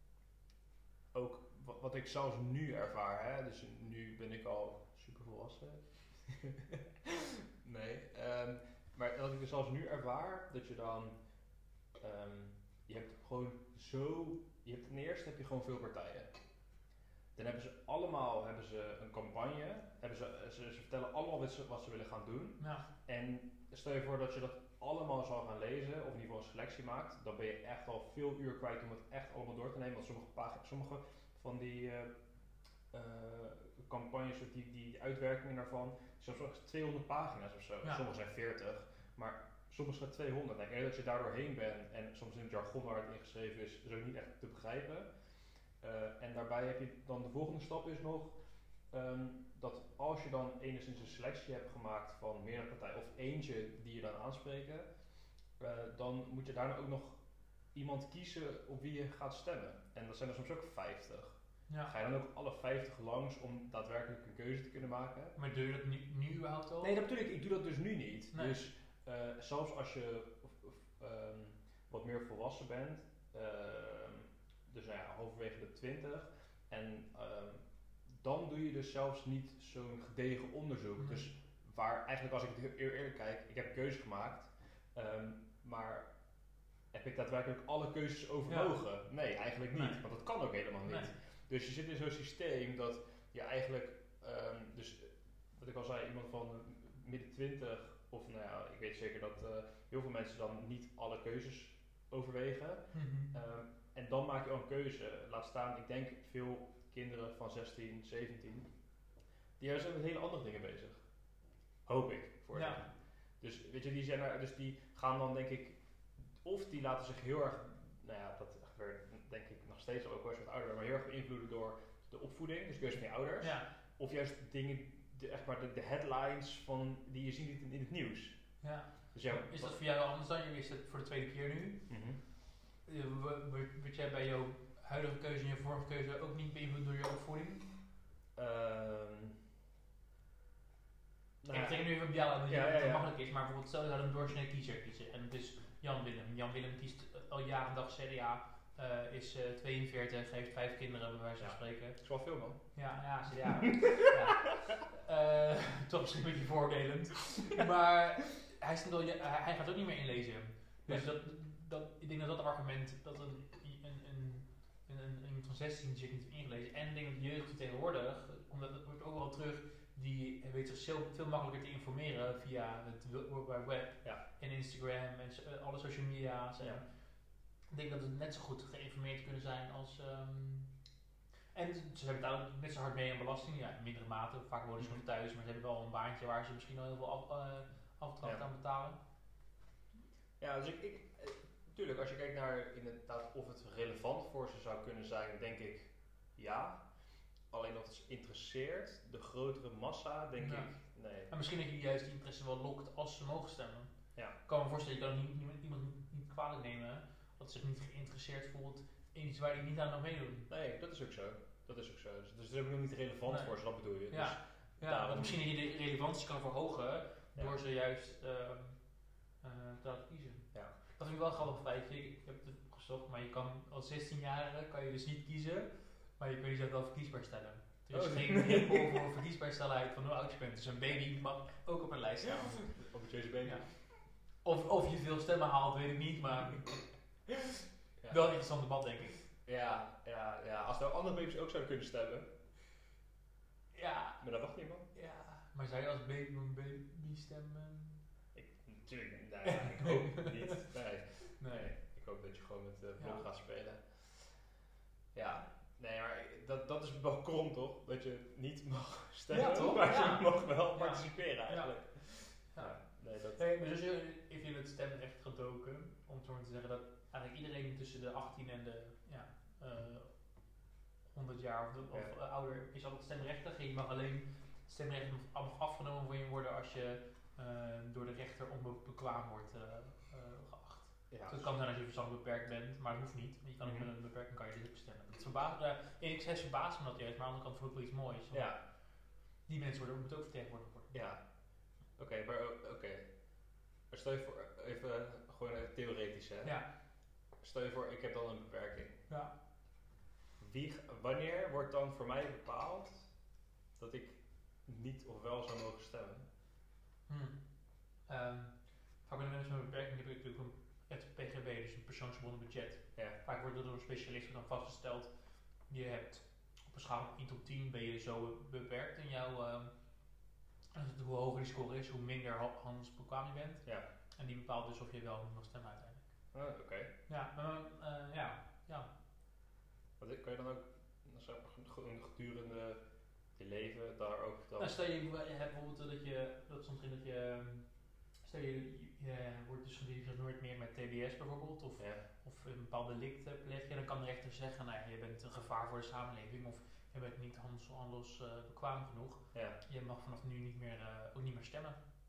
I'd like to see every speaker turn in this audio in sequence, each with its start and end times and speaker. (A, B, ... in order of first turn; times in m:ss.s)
0:01.1-0:11.1 A
0:12.0-0:16.3 A
0:17.4-0:32.1 A
0:22.6-0:22.8 B
0:32.9-0:45.1 A
0:45.8-0:48.4 A
0:48.9-0:54.9 A
0:55.6-0:57.2 A
0:57.7-1:05.4 A
1:05.4-1:06.9 B
1:06.8-1:17.6 A
1:08.3-1:08.6 B
1:18.2-1:26.1 A
1:26.9-1:48.7 A
1:28.5-1:28.8 B
1:29.7-1:30.0 B
1:42.9-1:43.3 B
1:49.6-1:51.0 A
1:51.9-1:52.9 A
1:52.6-1:52.8 B
1:53.4-1:55.8 A
1:56.4-2:08.4 A
2:03.4-2:03.7 B
2:08.6-2:11.9 B
2:09.1-2:09.8 A
2:11.9-2:12.2 A
2:12.9-2:17.6 B
2:18.4-2:19.4 A
2:21.4-2:21.9 A
2:21.5-2:32.0 B
2:22.5-2:23.1 A
2:31.4-2:32.6 A
2:32.7-2:56.9 B
2:33.4-2:34.6 A
2:57.7-3:00.7 B
3:01.5-3:09.0 B
3:10.4-3:16.8 A
3:17.5-3:21.3 A
3:20.4-3:20.7 B
3:21.3-3:23.9 B
3:24.4-3:30.5 B
3:30.5-3:35.4 A
3:33.3-3:33.6 B
3:34.1-3:38.8 B
3:39.4-3:52.8 B
3:47.9-3:49.0 A
3:52.3-3:53.8 A
3:53.4-3:53.7 B
3:54.4-3:56.9 B
3:58.1-3:59.2 B
3:59.5-4:02.3 A
4:03.7-4:04.2 B
4:04.2-4:04.9 A
4:04.9-4:08.0 B
4:08.4-4:14.2 A
4:09.4-4:10.6 B
4:11.4-4:11.7 B
4:13.0-4:13.2 B
4:15.1-4:23.4 A
4:19.3-4:21.7 B
4:22.4-4:22.8 B
4:23.3-4:30.1 B
4:31.1-4:48.5 B
4:41.1-4:41.6 A
4:43.6-4:43.9 A
4:48.3-4:48.6 A
4:49.5-4:51.0 B
4:50.9-4:51.2 A
4:52.0-4:53.1 A
4:53.9-4:56.6 A
4:57.4-4:59.0 A
5:00.4-5:03.0 A
5:03.8-5:06.2 A
5:07.1-5:07.4 B
5:08.1-5:15.1 B
5:15.7-5:19.7 B
5:20.7-5:23.6 B
5:24.2-5:26.1 B
5:26.3-5:26.9 A
5:27.1-5:28.9 B
5:30.0-5:32.8 A
5:33.4-5:34.8 A
5:34.6-5:37.6 B
5:38.2-5:51.8 B
5:49.3-5:49.6 A